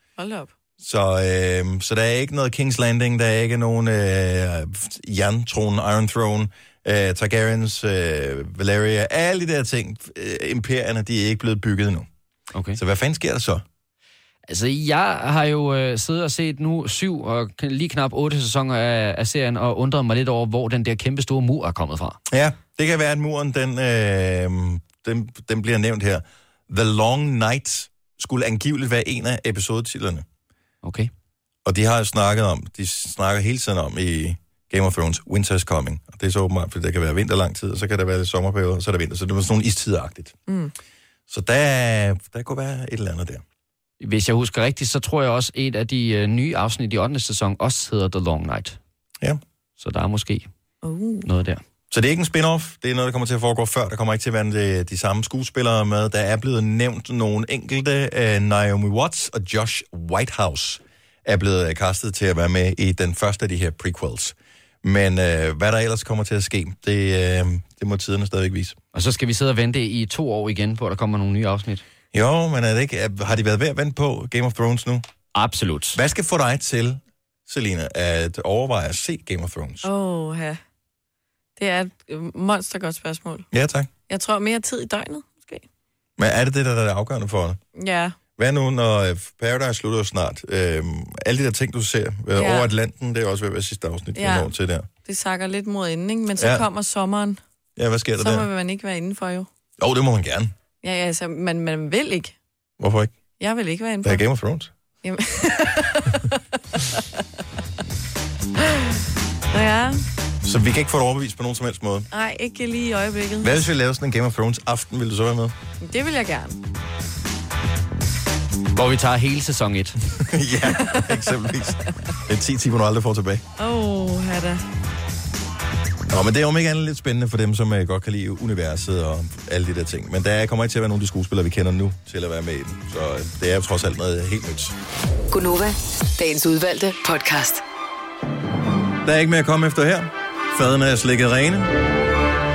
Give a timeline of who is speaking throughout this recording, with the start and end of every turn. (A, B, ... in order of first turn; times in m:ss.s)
0:00.2-0:00.5 A
0:00.8-0:12.1 B
0:12.5-0:12.8 C
0:12.7-0:13.6 B
0:14.5-0:22.2 C
0:22.3-0:30.2 B
0:30.8-0:31.1 C
0:31.6-0:40.4 B
0:40.5-0:40.7 A
0:41.3-0:43.4 B
0:44.0-0:48.8 C
0:49.8-0:50.5 C
0:50.8-0:51.3 A
0:51.2-0:51.6 C
0:51.9-1:08.8 B
1:08.9-1:11.8 C
1:12.1-1:15.0 B
1:15.3-1:16.0 C
1:15.9-1:19.9 B
1:19.8-1:20.6 A
1:21.6-1:23.4 A
1:23.5-1:23.9 B
1:24.1-1:25.6 A
1:26.2-1:27.6 B
1:27.7-1:28.2 A
1:28.4-1:34.9 B
1:32.3-1:32.7 A
1:34.1-1:34.5 A
1:35.0-1:37.4 A
1:36.4-1:36.6 B
1:37.8-1:38.5 B
1:38.2-1:39.5 A
1:39.8-1:40.5 B
1:40.8-1:42.3 A
1:42.8-1:43.1 B
1:43.4-1:44.2 A
1:44.0-1:44.7 B
1:45.0-1:47.0 A
1:48.6-1:48.9 A
1:49.5-1:50.0 A
1:50.4-1:52.1 B
1:52.1-1:53.7 A
1:53.4-1:55.5 B
1:55.8-1:56.6 A
1:58.7-2:00.0 C
2:00.2-2:03.4 B
2:03.6-2:04.6 A
2:06.1-2:14.8 B
2:15.3-2:17.6 D
2:19.0-2:21.7 B